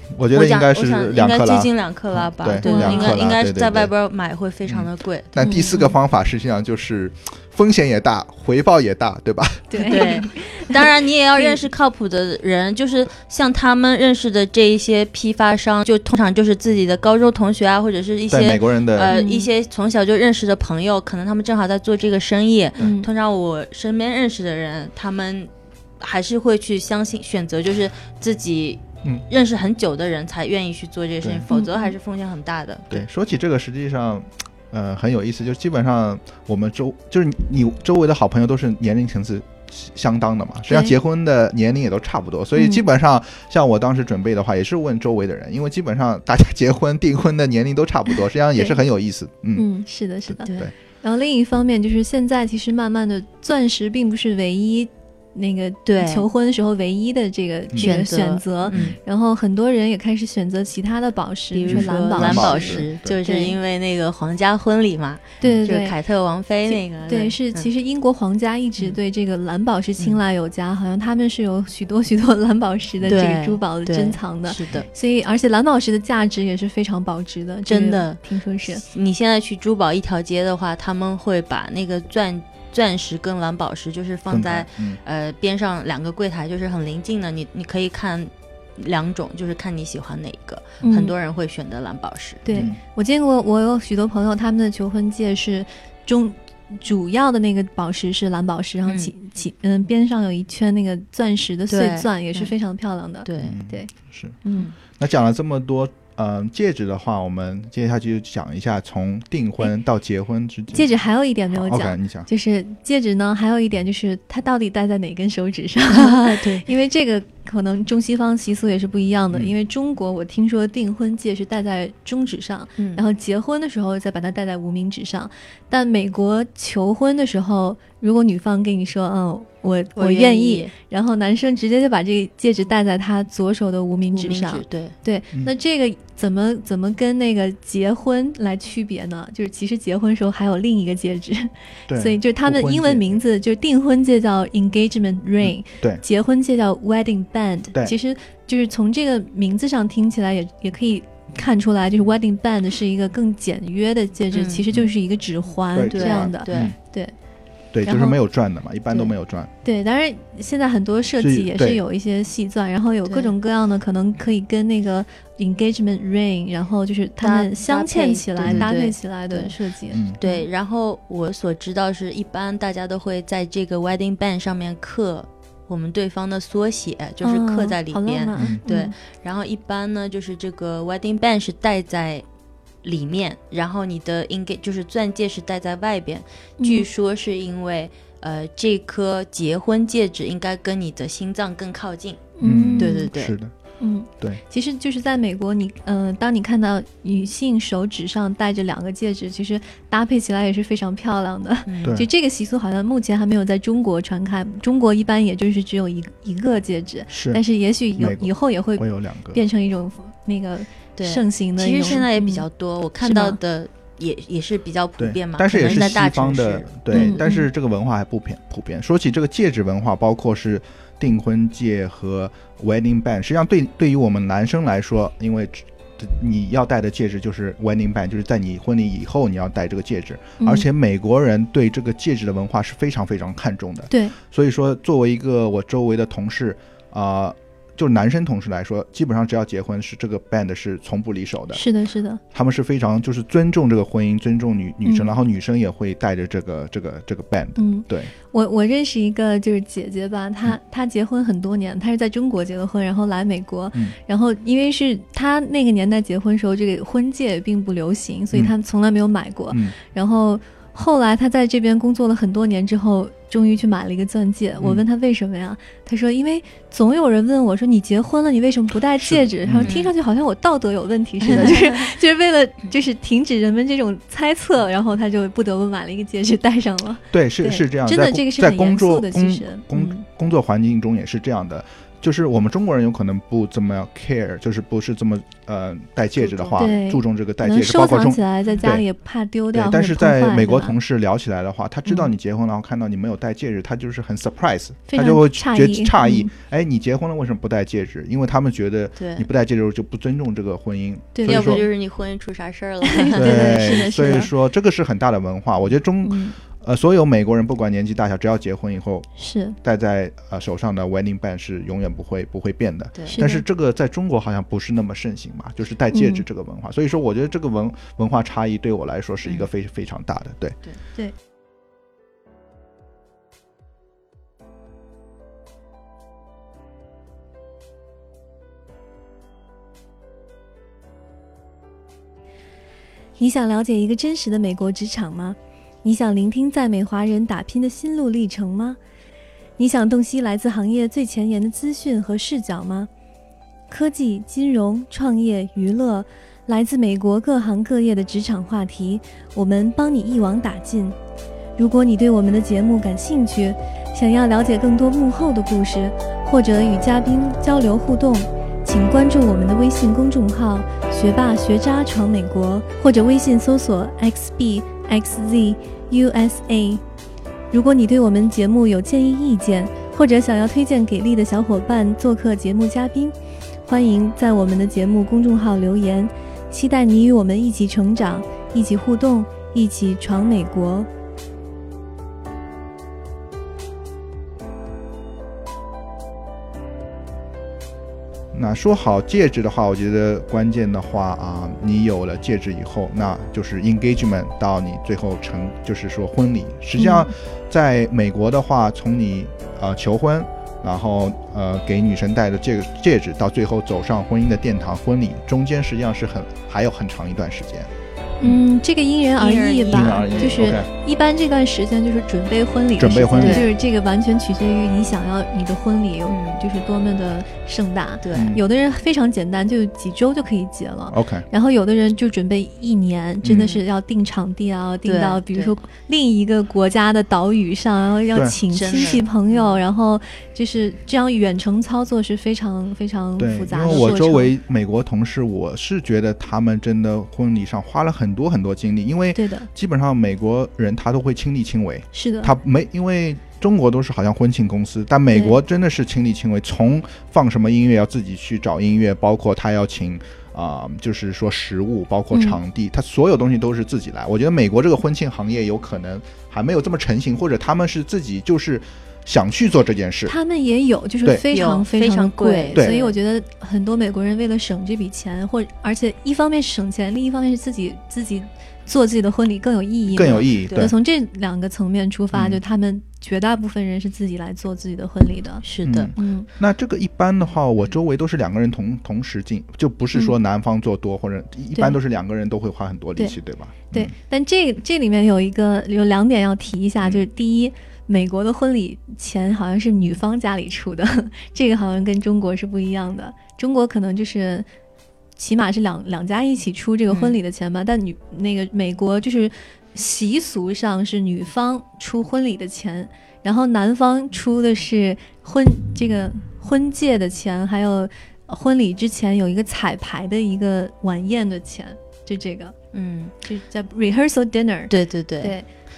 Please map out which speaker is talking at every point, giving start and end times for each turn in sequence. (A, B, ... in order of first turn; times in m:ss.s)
0:00.1-0:03.9 A
0:00.3-0:05.3 B
0:02.6-0:03.2 C
0:04.7-0:10.1 A
0:05.4-0:05.9 C
0:09.7-0:10.8 C
0:09.9-0:33.0 B
0:18.3-0:19.1 A
0:19.1-0:19.5 C
0:22.8-0:23.1 C
0:31.5-0:32.0 C
0:32.9-0:49.7 A
0:42.6-0:42.8 C
0:49.6-1:03.6 C
0:50.3-0:50.7 A
0:55.9-0:56.3 B
0:57.8-0:59.0 B
1:01.5-1:07.7 B
1:01.7-1:03.2 A
1:05.4-1:06.0 C
1:06.6-1:18.8 C
1:13.0-1:14.9 B
1:17.7-1:32.6 B
1:24.3-1:25.0 A
1:30.8-1:31.2 C
1:32.4-1:43.9 C
1:32.5-1:32.8 A
1:38.8-1:39.1 B
1:41.7-1:42.5 B
1:43.3-1:43.6 B
1:43.4-1:44.4 A
1:44.4-1:44.7 C
1:45.0-1:50.9 A
1:50.7-2:37.1 C
1:51.5-1:52.3 A
1:55.9-1:56.7 B
2:02.8-2:03.0 B
2:10.0-2:10.7 B
2:14.2-2:15.0 B
2:21.9-2:23.2 A
2:25.4-2:26.0 A
2:34.3-2:34.6 B
2:35.7-2:36.8 A
2:35.9-2:36.7 B
2:37.7-2:39.5 A
2:37.8-2:38.2 C
2:39.6-2:50.5 C
2:41.2-2:41.8 A
2:43.1-2:43.3 B
2:47.2-2:49.5 B
2:49.9-2:50.2 A
2:50.1-3:02.2 B
2:57.2-2:58.9 C
3:02.8-3:13.4 B
3:06.6-3:06.9 C
3:12.4-3:13.0 C
3:12.4-3:13.5 A
3:13.8-3:32.4 C
3:21.7-3:22.0 B
3:27.1-3:27.4 A
3:28.0-3:29.4 A
3:31.0-3:37.2 B
3:33.0-3:33.4 C
3:35.0-4:01.7 A
3:36.9-3:37.4 C
3:50.4-3:50.7 C
3:53.9-3:54.2 C
4:01.5-4:02.2 C
4:02.3-4:08.1 A
4:04.8-4:05.1 C
4:07.6-4:40.0 C
4:29.0-4:29.8 A
4:29.6-4:29.9 B
4:31.3-4:31.9 B
4:37.1-4:48.8 A
4:46.2-4:46.7 B
4:46.6-4:50.8 C
4:49.5-5:01.6 A
4:54.9-4:56.3 C
4:59.0-4:59.3 B
5:01.2-5:01.6 C
5:01.3-5:03.8 B
5:02.8-5:04.3 C
5:03.2-5:09.1 A
5:06.0-5:06.4 C
5:09.2-5:09.6 C
5:09.6-5:20.6 A
5:13.0-5:13.2 B
5:13.1-5:13.4 C
5:15.9-5:16.2 C
5:33.2-5:38.8 C
5:39.6-5:42.9 C
5:43.7-5:51.0 C
5:51.6-6:06.8 C
6:07.5-6:20.9 C
6:28.3-6:47.7 A
6:36.8-6:37.1 C
6:48.2-7:14.3 C
6:49.2-6:50.5 B
6:49.7-6:50.7 A
6:52.8-6:53.5 A
6:53.2-6:53.5 B
6:56.1-6:56.4 B
6:58.0-6:58.3 B
6:58.1-6:58.4 A
7:00.9-7:01.3 A
7:03.2-7:03.5 A
7:03.3-7:03.6 B
7:04.8-7:05.5 B
7:08.5-7:09.6 B
7:13.2-7:40.2 A
7:13.5-7:14.0 B
7:19.2-7:19.5 C
7:21.9-7:22.4 C
7:25.1-7:25.4 C
7:32.1-7:32.4 C
7:40.1-7:55.4 C
7:41.3-7:43.0 B
7:49.9-7:50.7 B
7:50.0-7:50.8 A
7:52.1-7:52.4 A
7:55.4-7:55.9 B
7:55.6-8:03.9 A
7:56.0-7:56.3 C
8:03.7-8:14.5 C
8:15.2-8:32.6 C
8:16.9-8:17.2 B
8:32.7-8:33.1 B
8:33.2-8:35.5 C
8:34.7-8:35.4 B